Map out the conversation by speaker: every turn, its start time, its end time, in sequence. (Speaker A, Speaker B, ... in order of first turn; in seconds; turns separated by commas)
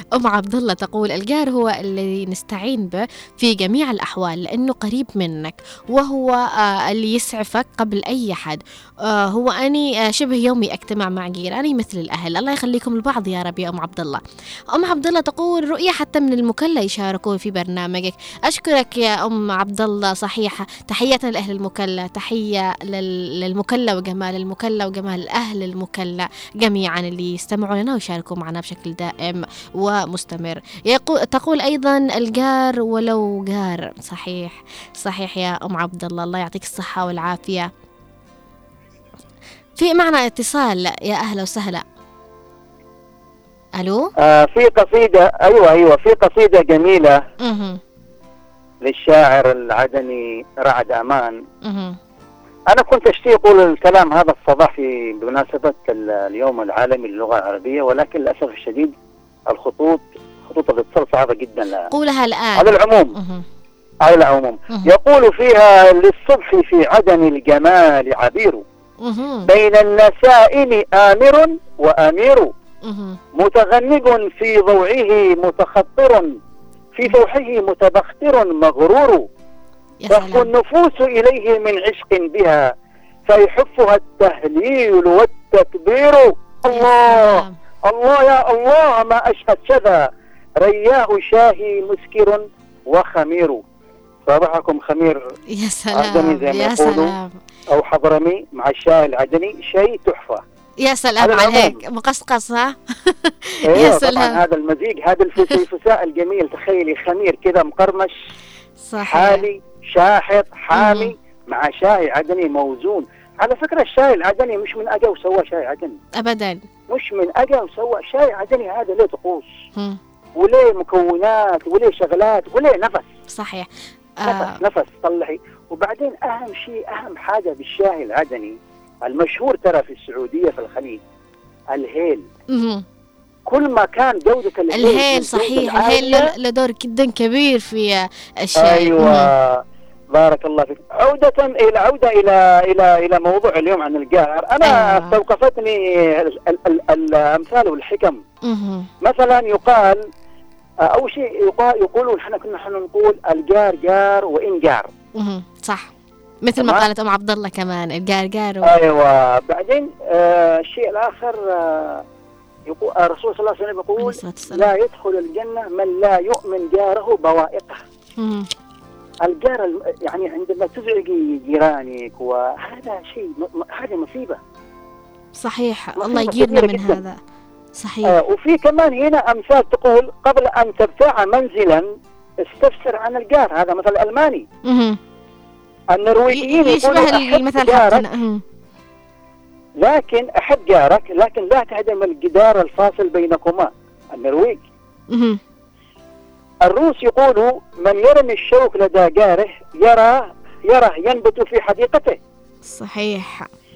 Speaker A: 0.1-14.2, Speaker A: 14.7-37.7, Speaker A: 39.8-41.8, Speaker A: 43.8-44.1, Speaker B: 44.2-47.2, Speaker A: 47.4-47.8, Speaker B: 48.8-51.3, Speaker A: 51.6-52.0, Speaker B: 52.7-58.9, Speaker B: 59.5-61.9, Speaker A: 61.9-63.5, Speaker B: 62.6-63.1, Speaker B: 64.0-68.6, Speaker A: 69.0-69.4, Speaker B: 69.5-72.5, Speaker A: 72.8-73.2, Speaker B: 73.3-76.3, Speaker B: 76.9-79.2, Speaker A: 80.0-80.5, Speaker B: 80.1-82.7, Speaker B: 83.2-90.0, Speaker A: 86.7-87.6, Speaker B: 90.6-93.6, Speaker B: 94.3-95.2, Speaker A: 95.5-97.4, Speaker B: 95.9-97.1, Speaker B: 97.7-100.4, Speaker A: 100.8-104.4, Speaker B: 101.2-101.8, Speaker B: 103.7-108.1, Speaker A: 108.8-109.4, Speaker B: 109.0-116.0, Speaker A: 110.7-111.1, Speaker A: 116.2-116.6, Speaker B: 116.9-119.5, Speaker B: 120.4-123.0, Speaker A: 123.3-123.7, Speaker A: 124.2-124.5, Speaker B: 124.2-131.0, Speaker B: 131.7-132.2, Speaker A: 132.5-132.8, Speaker B: 133.5-136.3, Speaker A: 134.7-139.3, Speaker B: 138.6-139.6, Speaker B: 140.1-148.2, Speaker A: 144.6-145.2, Speaker A: 148.4-148.9, Speaker B: 149.0-150.0, Speaker B: 150.8-154.9, Speaker A: 155.2-155.9, Speaker A: 156.4-158.7, Speaker B: 156.6-156.8, Speaker B: 158.6-162.0, Speaker B: 162.7-167.8, Speaker A: 164.0-164.7, Speaker A: 168.2-168.5, Speaker B: 169.2-174.4, Speaker A: 175.4-177.2, Speaker B: 176.0-177.0, Speaker A: 177.8-178.1, Speaker B: 178.1-181.9, Speaker B: 182.4-184.4, Speaker A: 184.7-185.0, Speaker B: 185.9-188.0, Speaker A: 186.3-188.4, Speaker B: 189.8-194.6, Speaker A: 195.1-195.4, Speaker B: 196.7-202.2, Speaker A: 202.7-203.5